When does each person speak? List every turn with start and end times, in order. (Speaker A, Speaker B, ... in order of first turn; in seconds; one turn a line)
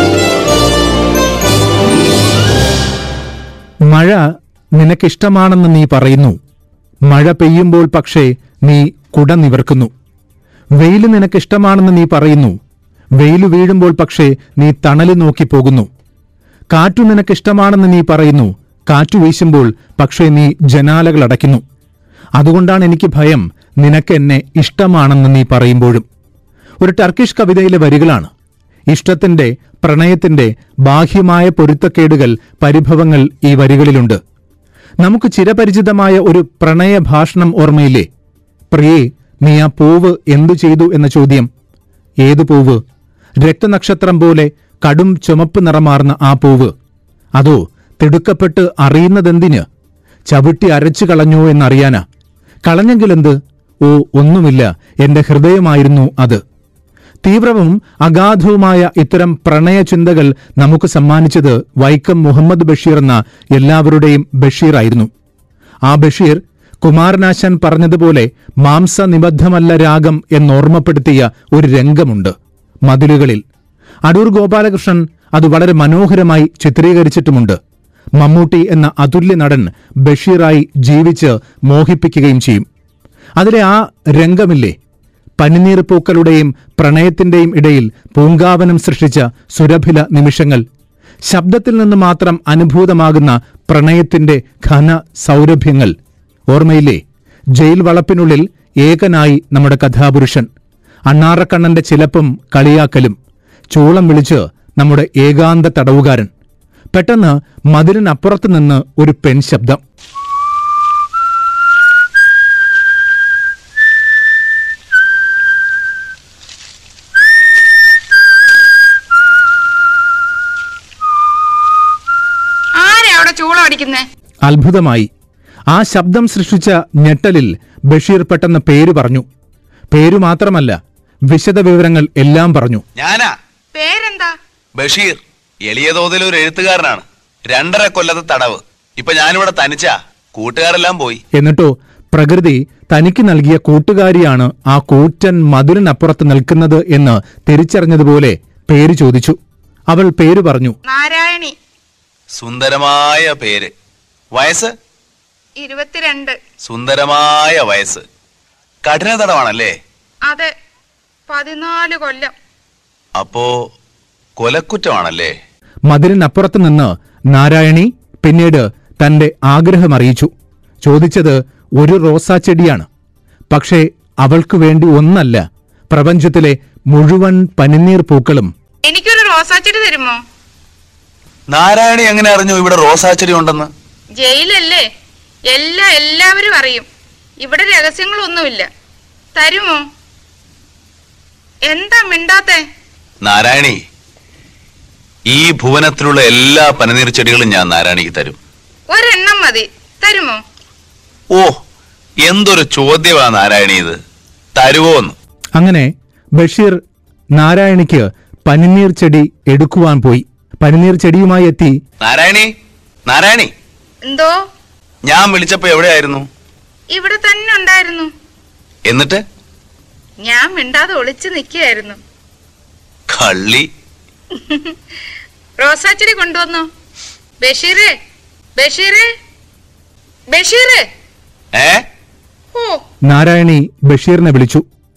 Speaker A: 3.9-4.2
Speaker A: 4.8-6.4
Speaker A: 7.1-9.9
Speaker A: 10.8-12.6
Speaker A: 13.2-15.9
Speaker A: 16.7-21.6
Speaker A: 22.4-26.0
Speaker A: 26.8-28.3
Speaker A: 28.9-34.2
Speaker A: 35.0-38.1
Speaker A: 38.7-41.5
Speaker A: 42.2-42.8
Speaker A: 43.4-46.7
Speaker A: 47.4-49.6
Speaker A: 50.3-52.0
Speaker A: 52.7-56.4
Speaker A: 57.2-65.1
Speaker A: 65.9-72.3
Speaker A: 72.9-73.4
Speaker A: 74.1-77.6
Speaker A: 78.2-82.7
Speaker A: 83.4-84.8
Speaker A: 85.4-90.6
Speaker A: 91.3-95.9
Speaker A: 96.5-97.0
Speaker A: 97.6-100.5
Speaker A: 101.1-103.2
Speaker A: 103.7-106.3
Speaker A: 106.9-109.8
Speaker B: 122.8-124.0
Speaker A: 124.5-125.1
Speaker A: 125.7-129.2
Speaker A: 129.9-130.8
Speaker A: 131.3-132.8
Speaker C: 133.0-133.3
Speaker B: 133.7-134.3
Speaker C: 134.8-141.2
Speaker A: 141.3-149.4
Speaker A: 149.9-150.8
Speaker B: 150.9-151.5
Speaker C: 152.4-153.7
Speaker C: 154.3-154.7
Speaker B: 155.6-156.4
Speaker C: 156.6-158.1
Speaker C: 158.8-159.8
Speaker B: 161.3-162.3
Speaker C: 163.2-163.5
Speaker C: 164.4-165.3
Speaker A: 165.9-170.3
Speaker A: 170.8-172.9
Speaker A: 173.5-178.5
Speaker B: 178.8-180.2
Speaker C: 181.5-183.7
Speaker B: 184.2-184.8
Speaker B: 185.5-186.9
Speaker B: 187.4-188.7
Speaker B: 189.3-189.8
Speaker B: 191.7-192.6
Speaker C: 193.2-193.8
Speaker C: 195.3-198.4
Speaker B: 198.9-200.4
Speaker C: 202.2-204.0
Speaker C: 204.6-205.2
Speaker A: 205.6-206.8
Speaker A: 207.4-211.8
Speaker C: 212.0-212.5
Speaker C: 213.1-213.5
Speaker B: 214.1-214.3
Speaker C: 215.1-216.3
Speaker B: 216.9-218.1
Speaker C: 218.9-219.2
Speaker B: 220.2-222.0
Speaker C: 223.1-223.7
Speaker B: 224.3-224.8
Speaker B: 225.6-226.7
Speaker B: 227.4-227.9
Speaker B: 228.6-229.1
Speaker B: 230.3-230.8
Speaker C: 231.5-231.8
Speaker B: 232.5-232.8
Speaker A: 233.1-234.6